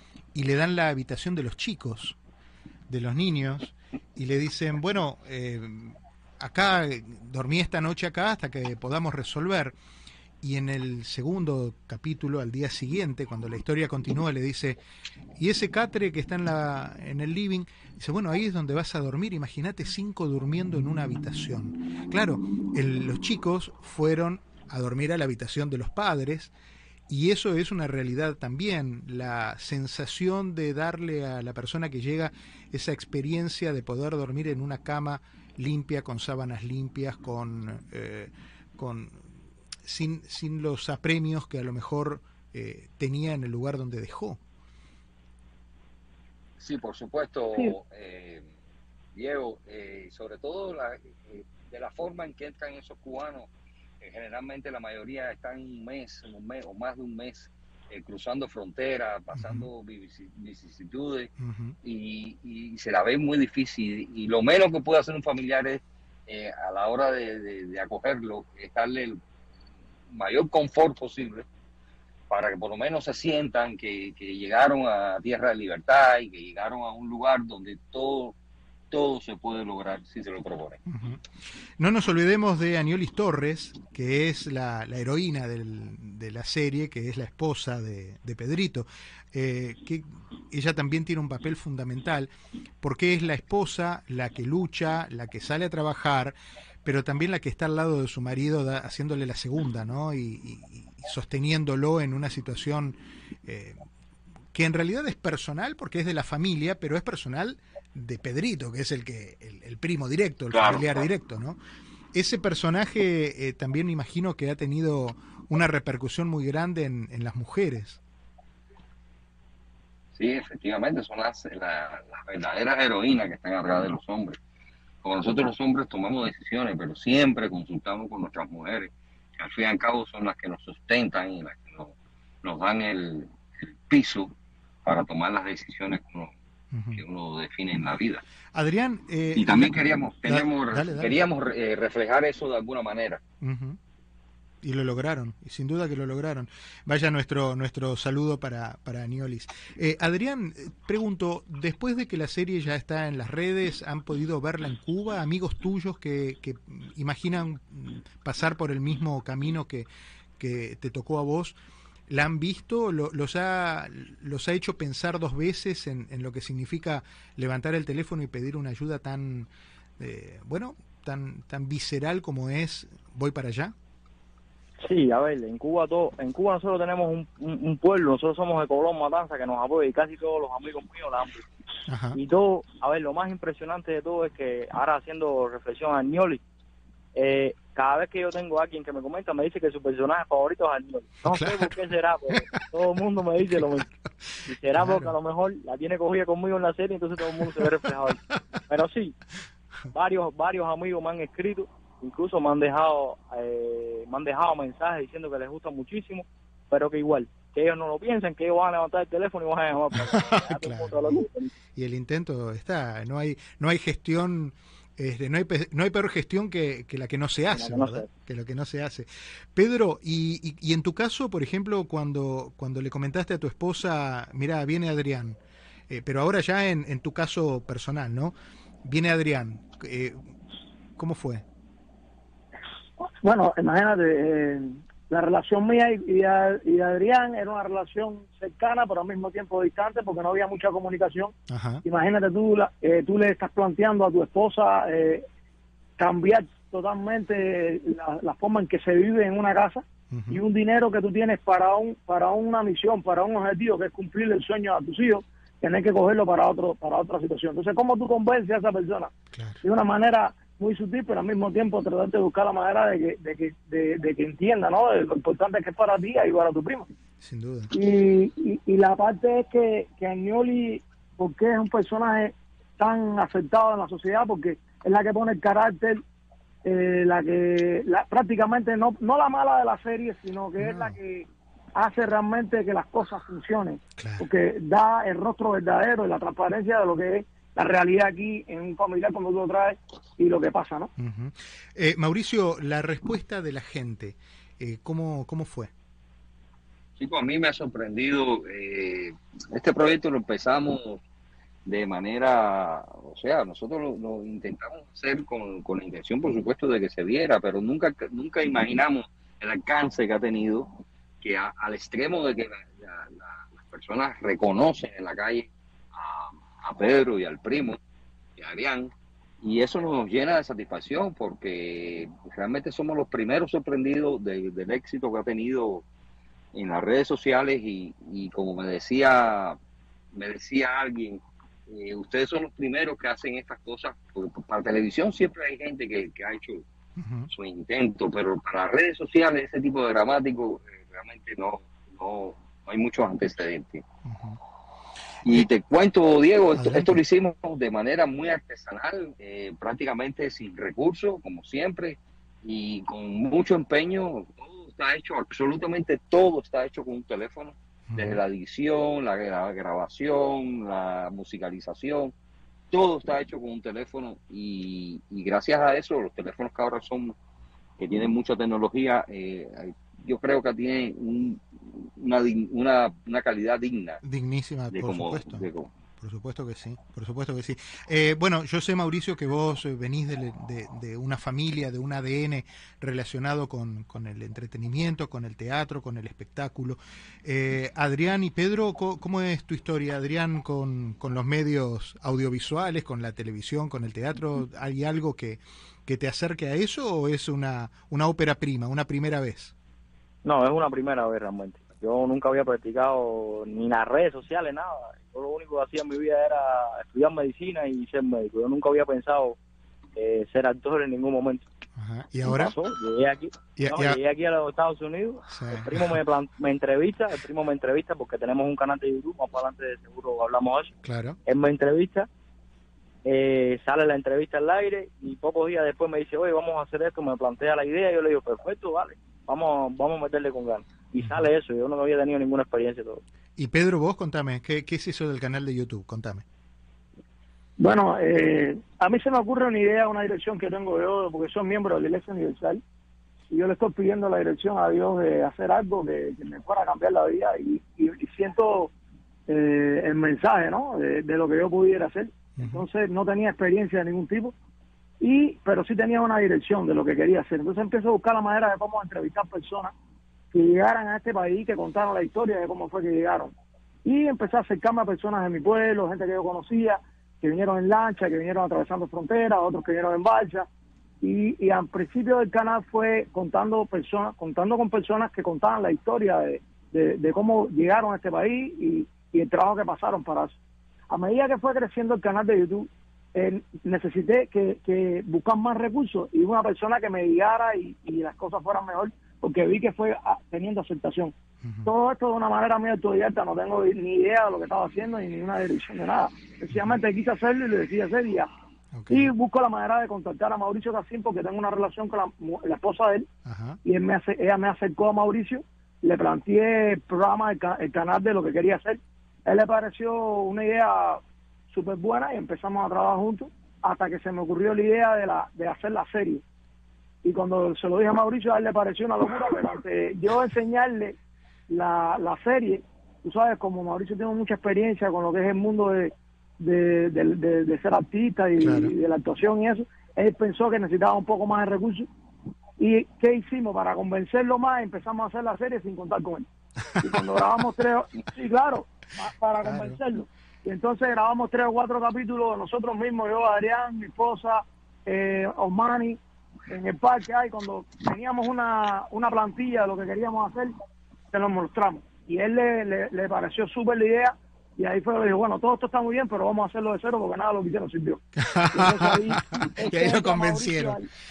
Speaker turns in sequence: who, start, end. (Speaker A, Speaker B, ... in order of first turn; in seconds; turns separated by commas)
Speaker A: 0.3-2.2, Speaker A: 2.9-9.7, Speaker A: 10.4-14.8, Speaker A: 15.4-26.5, Speaker A: 27.1-39.3, Speaker A: 39.8-44.4, Speaker B: 46.6-48.5, Speaker B: 49.1-53.5, Speaker B: 54.0-69.2, Speaker A: 59.3-59.7, Speaker A: 61.4-61.7, Speaker B: 70.1-71.5, Speaker B: 72.3-78.3, Speaker B: 78.9-80.8, Speaker A: 80.9-81.2, Speaker A: 81.8-92.3, Speaker A: 92.8-103.8, Speaker A: 104.5-111.6, Speaker B: 110.5-111.0, Speaker A: 112.1-118.0, Speaker B: 120.2-124.4, Speaker B: 125.0-134.3, Speaker B: 134.8-136.3, Speaker A: 136.7-137.0, Speaker B: 136.9-138.2, Speaker A: 138.5-141.1, Speaker B: 139.3-143.2, Speaker A: 143.4-143.8, Speaker A: 144.6-161.6, Speaker A: 162.1-173.7, Speaker C: 174.8-181.4, Speaker A: 181.9-182.2, Speaker C: 182.1-186.4, Speaker C: 187.1-193.9, Speaker A: 191.3-191.7, Speaker A: 193.5-194.1, Speaker C: 194.5-199.2, Speaker A: 194.8-195.1, Speaker C: 199.9-211.5, Speaker A: 209.9-230.2, Speaker C: 217.5-218.1, Speaker A: 231.0-231.4, Speaker D: 233.0-245.2, Speaker A: 241.5-241.8, Speaker D: 246.0-259.1, Speaker A: 250.1-250.4, Speaker A: 259.3-259.6, Speaker D: 259.6-266.9, Speaker A: 267.2-267.7, Speaker D: 267.7-276.0, Speaker D: 276.6-290.9, Speaker A: 280.6-281.0, Speaker A: 284.0-284.3, Speaker A: 291.0-295.7, Speaker B: 297.0-301.0, Speaker B: 301.6-317.8, Speaker B: 318.4-325.8, Speaker B: 326.5-329.6, Speaker B: 330.1-336.6, Speaker A: 337.0-337.3, Speaker B: 337.3-343.8, Speaker A: 344.0-344.4, Speaker B: 345.2-362.1, Speaker A: 346.6-347.0, Speaker A: 357.9-358.2, Speaker B: 362.7-367.1, Speaker B: 367.8-374.0, Speaker A: 374.0-375.4, Speaker B: 374.7-375.7, Speaker A: 376.0-399.5, Speaker C: 400.2-409.4, Speaker C: 409.9-411.4, Speaker A: 411.8-412.6, Speaker C: 412.2-420.7, Speaker A: 413.6-414.0, Speaker A: 415.3-416.0, Speaker A: 420.8-421.2, Speaker C: 421.3-422.1, Speaker C: 423.0-433.0, Speaker A: 431.0-431.2, Speaker A: 433.4-436.2, Speaker D: 437.6-442.6, Speaker D: 443.3-448.7, Speaker D: 449.3-454.3, Speaker A: 452.4-452.7, Speaker D: 455.0-459.7, Speaker D: 460.3-470.5, Speaker D: 471.0-480.4, Speaker D: 480.9-491.1, Speaker A: 491.4-491.7, Speaker D: 491.6-498.3, Speaker A: 496.5-496.8, Speaker A: 498.7-499.1, Speaker D: 498.9-503.1, Speaker A: 503.2-503.6, Speaker D: 503.6-516.2, Speaker D: 517.0-521.0, Speaker D: 521.5-531.9, Speaker A: 528.4-528.7, Speaker D: 532.6-550.5, Speaker A: 536.7-537.0, Speaker A: 539.4-539.8, Speaker D: 551.1-560.9, Speaker A: 558.2-560.8